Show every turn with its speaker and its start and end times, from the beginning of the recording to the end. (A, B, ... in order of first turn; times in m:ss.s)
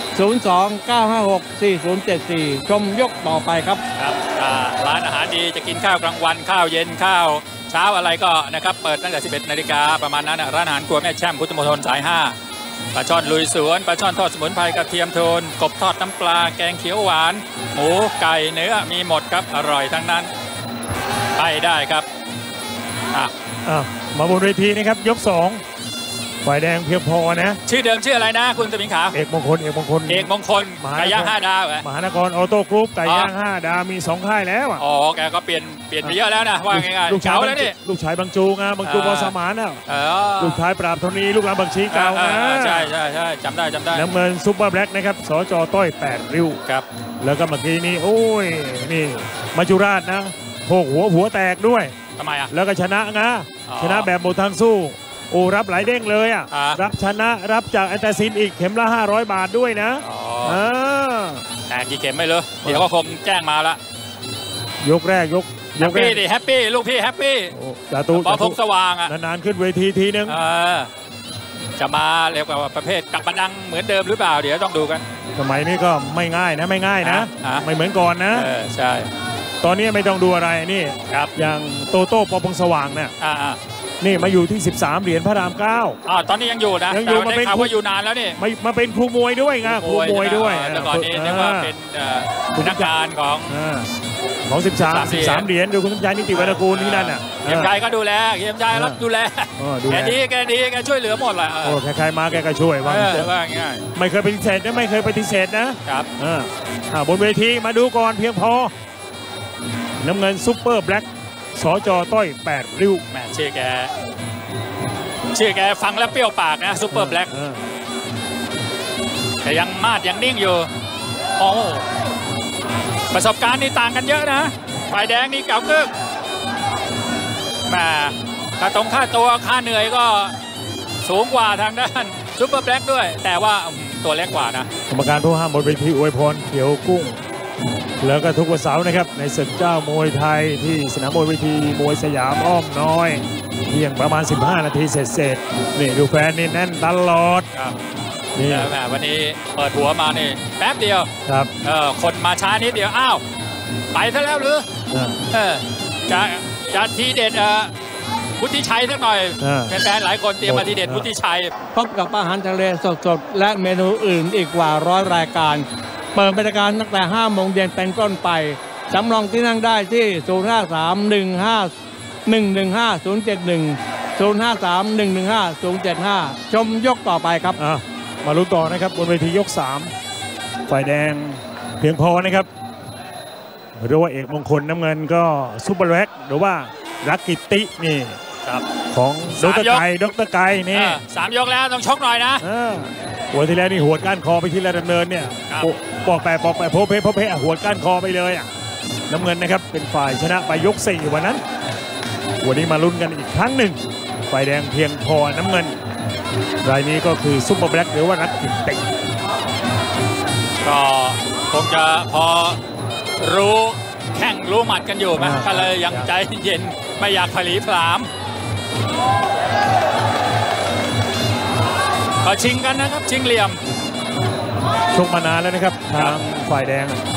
0:00.1-0:03.8 A
0:04.0-0:12.4 B
0:12.9-0:20.3 B
0:21.4-0:22.1 B
0:23.6-0:25.6 C
0:26.4-0:27.6 C
0:27.7-0:29.2 B
0:29.1-0:34.8 C
0:30.1-0:31.8 B
0:33.0-0:33.3 B
0:34.8-0:37.8 B
0:36.7-0:39.8 C
0:38.8-0:39.4 B
0:39.9-0:40.6 B
0:40.4-0:42.9 C
0:41.9-0:44.1 B
0:43.9-0:46.6 C
0:47.2-0:52.0 C
0:52.2-0:52.5 B
0:52.5-1:01.4 C
0:53.7-0:54.1 B
0:56.5-0:56.8 B
1:00.0-1:00.6 B
1:01.7-1:03.8 B
1:04.8-1:06.2 C
1:05.8-1:07.5 B
1:07.5-1:10.4 C
1:08.1-1:09.1 B
1:10.3-1:10.9 B
1:11.8-1:15.0 B
1:15.4-1:18.5 C
1:17.0-1:17.6 B
1:18.3-1:19.1 B
1:19.6-1:23.1 C
1:23.2-1:23.6 B
1:24.0-1:26.0 C
1:26.1-1:28.4 B
1:26.9-1:27.7 C
1:28.4-1:31.7 C
1:29.6-1:33.6 B
1:32.5-1:32.9 C
1:33.5-1:33.9 C
1:34.5-1:37.7 C
1:34.9-1:35.5 B
1:36.3-1:41.8 B
1:38.7-1:39.0 C
1:39.6-1:40.2 C
1:41.6-1:43.3 C
1:42.8-1:43.8 B
1:44.0-1:48.7 C
1:50.0-1:53.0 C
1:53.1-1:53.9 B
1:55.3-1:57.3 B
1:56.9-1:57.6 C
1:59.4-2:00.7 B
2:01.4-2:01.9 B
2:03.1-2:05.9 B
2:07.7-2:10.4 B
2:11.0-2:14.7 B
2:14.9-2:17.2 C
2:18.0-2:27.5 C
2:28.4-2:28.7 C
2:28.5-2:31.1 B
2:31.6-2:33.2 B
2:33.9-2:34.7 B
2:34.9-2:35.2 C
2:35.3-2:37.7 B
2:38.4-2:41.5 B
2:39.4-2:39.8 C
2:40.4-2:41.1 C
2:41.7-2:51.7 A
2:52.3-2:57.6 A
2:57.6-2:59.9 C
3:00.7-3:02.5 C
3:03.8-3:08.2 C
3:08.9-3:11.0 C
3:09.4-3:09.8 B
3:10.7-3:12.4 B
3:12.4-3:18.5 C
3:19.1-3:21.4 C
3:22.4-3:25.8 C
3:26.6-3:28.9 C
3:30.6-3:32.6 B
3:33.2-3:38.1 B
3:35.2-3:36.1 C
3:42.2-3:43.6 B
3:44.9-3:47.0 C
3:45.9-3:46.2 B